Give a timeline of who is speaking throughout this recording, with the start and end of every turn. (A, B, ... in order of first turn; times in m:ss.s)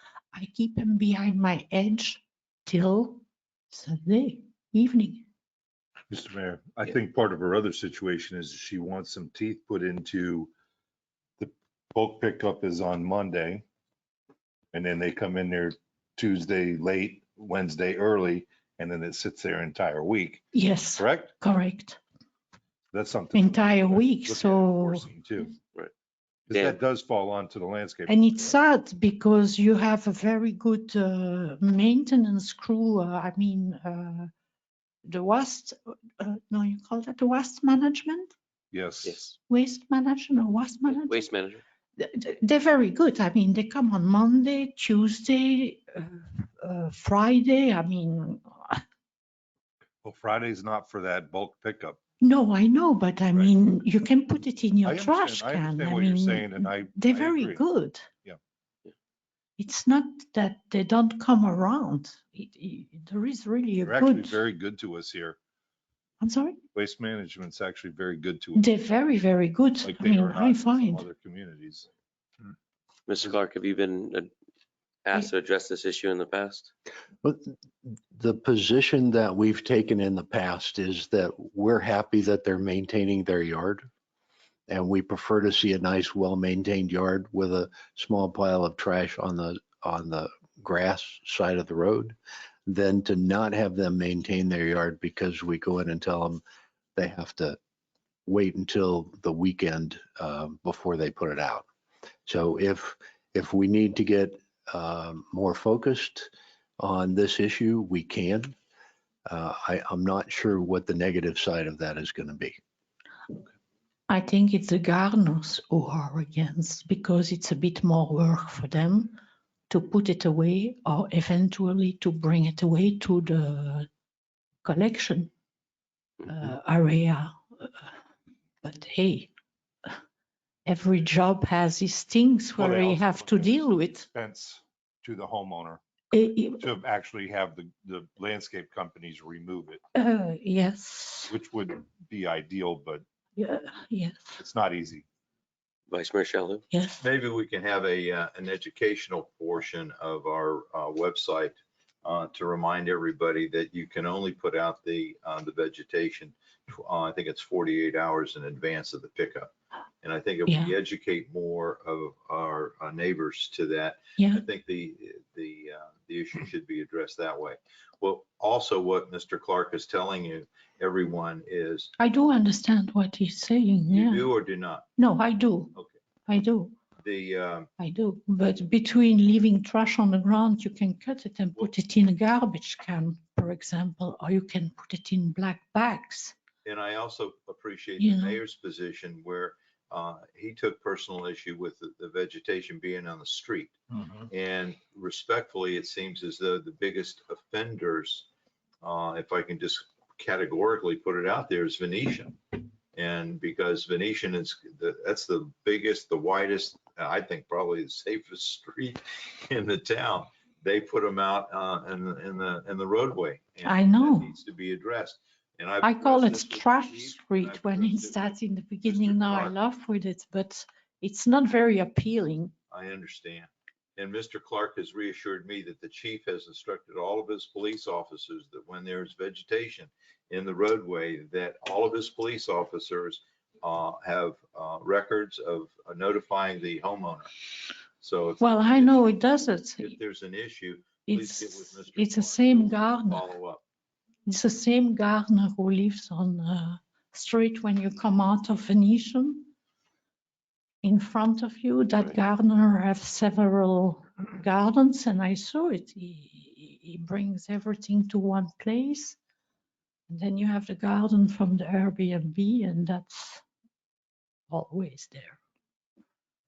0:00.3-0:05.3 A
0:06.1-0:10.5 B
0:11.4-0:13.6 B
0:14.7-0:20.5 B
0:20.5-0:22.0 A
0:21.0-0:21.3 B
0:22.9-0:25.5 B
0:23.3-0:25.1 A
0:26.5-0:28.4 B
0:28.1-0:34.3 A
0:35.1-0:38.3 A
0:38.7-0:39.2 B
0:39.0-0:39.4 C
0:39.5-0:41.3 A
0:40.9-0:41.6 C
0:42.0-0:48.8 A
0:50.0-0:52.0 B
0:52.2-0:58.1 A
0:54.8-0:57.6 B
0:59.6-1:04.4 A
1:03.8-1:05.4 B
1:06.2-1:06.6 A
1:06.8-1:08.7 B
1:08.6-1:11.1 A
1:09.8-1:11.9 B
1:13.1-1:14.3 C
1:15.0-1:16.7 C
1:17.2-1:23.9 D
1:24.7-1:36.4 D
1:37.0-1:37.6 D
1:38.3-1:41.6 D
1:42.3-1:48.6 D
1:49.3-1:52.6 D
1:54.1-1:59.2 A
1:59.7-2:03.9 A
2:04.6-2:05.3 A
2:06.2-2:07.9 A
2:08.6-2:09.3 A
2:10.7-2:14.1 A
2:12.6-2:15.8 B
2:16.1-2:16.7 A
2:16.5-2:19.8 B
2:20.0-2:21.3 A
2:21.3-2:23.0 B
2:23.4-2:24.4 A
2:24.4-2:25.1 B
2:25.9-2:26.6 C
2:26.7-2:27.0 A
2:27.0-2:39.5 E
2:40.0-2:51.9 E
2:40.5-2:40.7 A
2:44.2-2:44.4 A
2:52.0-2:54.3 A
2:53.9-2:54.9 E
2:55.0-2:55.7 A
2:56.3-2:56.8 A
2:57.0-2:57.7 E
2:57.8-3:06.4 A
3:06.6-3:18.3 E
3:08.0-3:08.4 A
3:18.8-3:39.5 E
3:33.6-3:34.3 A
3:35.8-3:42.5 A
3:42.7-3:57.5 E
3:58.0-4:03.6 E
3:58.4-4:00.0 A
4:01.1-4:03.2 A
4:04.3-4:09.5 A
4:10.8-4:19.2 A
4:20.1-4:23.4 A
4:24.5-4:25.4 A